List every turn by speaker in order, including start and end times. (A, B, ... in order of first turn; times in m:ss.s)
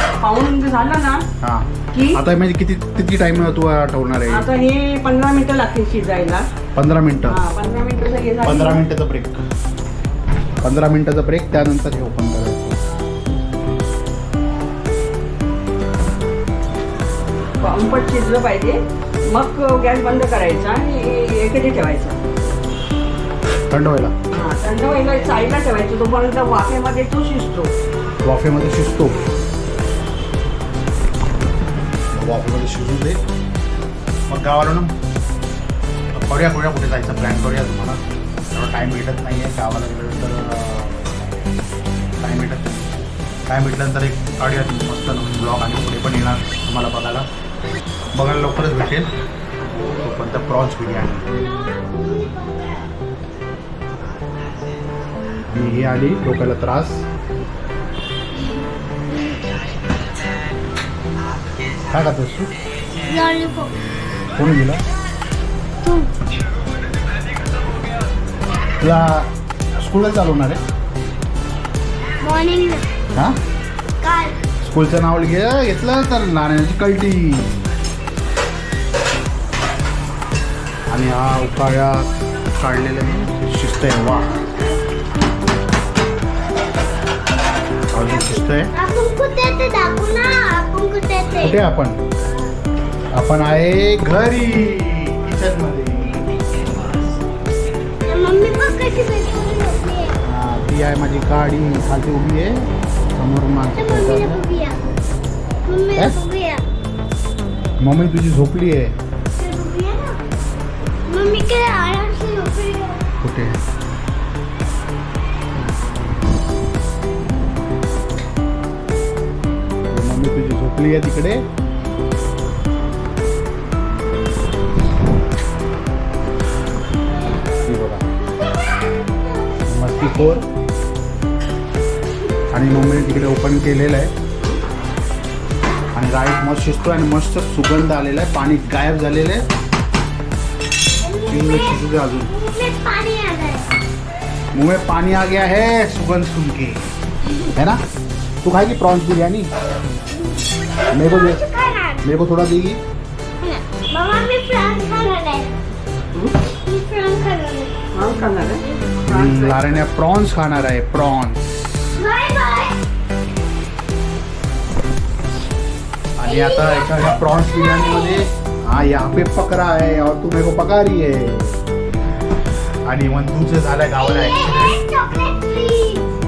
0:00.2-0:01.2 A
0:01.4-0:04.5 B
0:01.9-0:02.2 A
0:04.3-0:06.5 A
0:06.7-0:07.4 B
0:07.3-0:08.8 A
0:08.4-0:09.4 B
0:10.6-0:12.8 B
0:17.6-0:22.2 A
0:23.7-0:24.1 B
0:24.3-0:27.7 A
0:28.2-0:29.2 B
0:29.1-0:29.4 A
0:32.1-0:33.2 B
0:34.3-0:34.9 B
0:36.1-0:38.0 B
0:38.5-0:41.2 B
0:42.2-0:42.9 B
0:43.5-0:47.3 B
0:48.2-0:49.1 B
0:49.8-0:51.2 B
0:51.8-0:52.9 C
0:55.5-0:57.1 B
1:01.9-1:02.5 B
1:03.0-1:03.7 C
1:04.4-1:04.8 B
1:05.8-1:06.1 C
1:08.8-1:10.6 B
1:12.2-1:12.8 C
1:14.0-1:14.4 C
1:14.6-1:17.6 B
1:20.9-1:24.3 B
1:27.9-1:28.7 B
1:28.1-1:31.6 C
1:31.4-1:32.0 B
1:33.1-1:36.3 B
1:38.0-1:40.1 C
1:40.2-1:44.4 B
1:43.8-1:44.8 C
1:45.6-1:46.6 C
1:47.8-1:49.0 B
1:49.4-1:50.2 C
1:51.1-1:53.0 C
1:53.2-1:53.6 B
1:59.9-2:01.4 B
2:07.6-2:08.0 B
2:09.7-2:10.4 B
2:12.5-2:14.1 B
2:15.9-2:19.5 B
2:21.0-2:23.7 C
2:21.2-2:22.3 B
2:24.5-2:26.8 B
2:27.5-2:27.8 B
2:28.4-2:29.5 B
2:30.2-2:32.0 C
2:30.9-2:31.4 B
2:32.0-2:32.8 B
2:33.4-2:35.5 C
2:36.6-2:37.8 C
2:37.9-2:39.8 A
2:38.6-2:39.0 C
2:39.1-2:42.0 B
2:42.0-2:42.8 C
2:46.2-2:51.6 B
2:46.2-2:48.3 C
2:52.8-2:54.8 B
2:54.0-2:56.1 C